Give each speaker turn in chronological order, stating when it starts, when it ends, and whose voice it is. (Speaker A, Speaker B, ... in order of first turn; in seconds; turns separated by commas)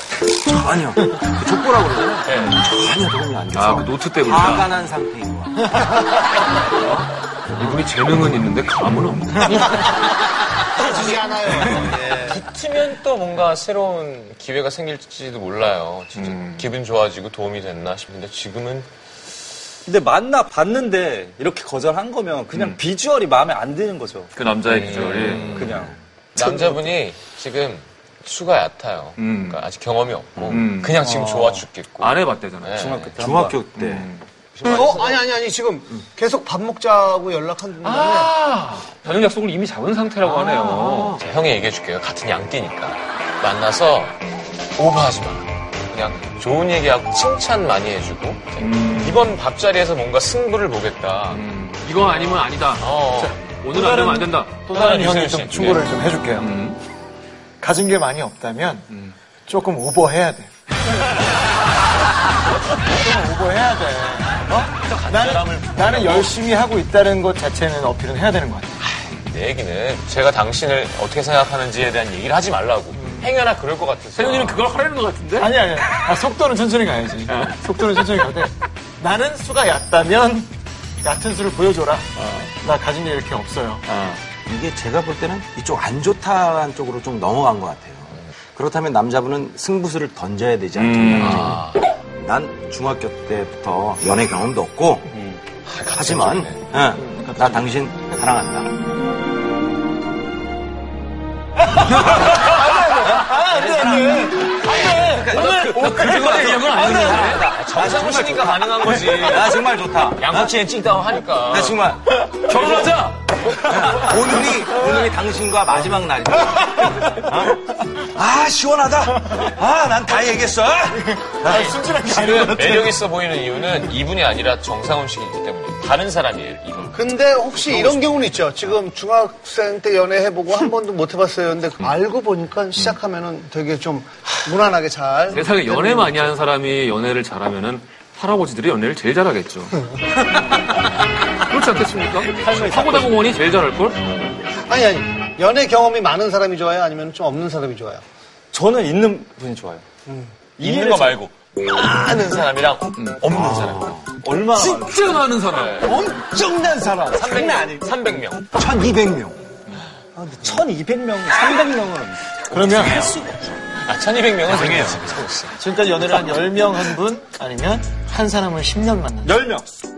Speaker A: 0.5-5.8, Speaker B: 2.3-2.6, Speaker C: 3.5-4.7, Speaker C: 6.6-10.0, Speaker B: 10.7-18.9, Speaker D: 10.8-12.4, Speaker C: 16.1-16.7, Speaker E: 19.9-24.3, Speaker C: 22.5-22.8, Speaker C: 24.3-25.8, Speaker B: 24.6-25.7, Speaker E: 25.0-26.8, Speaker B: 26.4-33.2, Speaker C: 29.2-29.6, Speaker A: 30.4-30.6, Speaker C: 30.5-31.0, Speaker E: 31.0-31.6, Speaker C: 32.0-33.0, Speaker E: 32.8-33.6, Speaker A: 33.2-35.0, Speaker C: 33.8-34.2, Speaker D: 34.6-38.3, Speaker C: 37.8-41.2, Speaker A: 40.2-41.2, Speaker B: 40.7-44.2, Speaker B: 44.8-53.5, Speaker C: 48.6-49.4, Speaker C: 51.3-52.9, Speaker F: 53.2-56.5, Speaker C: 53.4-54.6, Speaker D: 53.8-54.7, Speaker B: 54.7-55.9, Speaker D: 55.5-55.8, Speaker C: 56.4-56.8, Speaker F: 57.6-58.8, Speaker F: 59.5-60.5, Speaker F: 63.0-68.8, Speaker B: 64.6-66.4, Speaker B: 69.0-74.7, Speaker C: 74.1-75.5, Speaker F: 75.4-78.5, Speaker C: 77.3-77.6, Speaker F: 79.0-80.5, Speaker F: 81.0-83.8, Speaker C: 83.9-84.2, Speaker A: 84.5-95.4, Speaker C: 90.8-91.6, Speaker B: 91.2-91.8, Speaker B: 95.6-96.7, Speaker A: 95.9-98.7, Speaker C: 97.2-97.6, Speaker C: 102.1-103.2, Speaker A: 103.1-113.0, Speaker F: 103.3-104.5, Speaker D: 104.2-104.5, Speaker B: 104.6-111.8, Speaker C: 105.1-107.5, Speaker C: 112.4-113.3, Speaker A: 113.5-121.5, Speaker C: 113.8-114.2, Speaker D: 121.3-122.7, Speaker B: 121.4-127.1, Speaker F: 121.6-122.8, Speaker D: 126.9-136.3, Speaker C: 135.3-144.4, Speaker E: 142.3-143.2, Speaker D: 144.7-148.0, Speaker E: 148.5-149.8, Speaker D: 150.1-150.3, Speaker E: 150.6-151.2, Speaker B: 150.6-154.1, Speaker C: 153.0-153.6, Speaker E: 154.2-155.1, Speaker C: 154.6-156.1, Speaker B: 155.4-156.0, Speaker E: 155.8-157.9, Speaker B: 156.9-158.6, Speaker A: 158.6-159.3, Speaker E: 158.8-159.2, Speaker E: 160.2-162.4, Speaker B: 162.5-163.2, Speaker F: 162.5-163.2, Speaker D: 162.6-162.9, Speaker A: 163.0-163.5, Speaker B: 163.7-165.6, Speaker E: 164.5-164.8, Speaker A: 164.5-165.2, Speaker F: 165.6-169.3, Speaker E: 169.3-169.7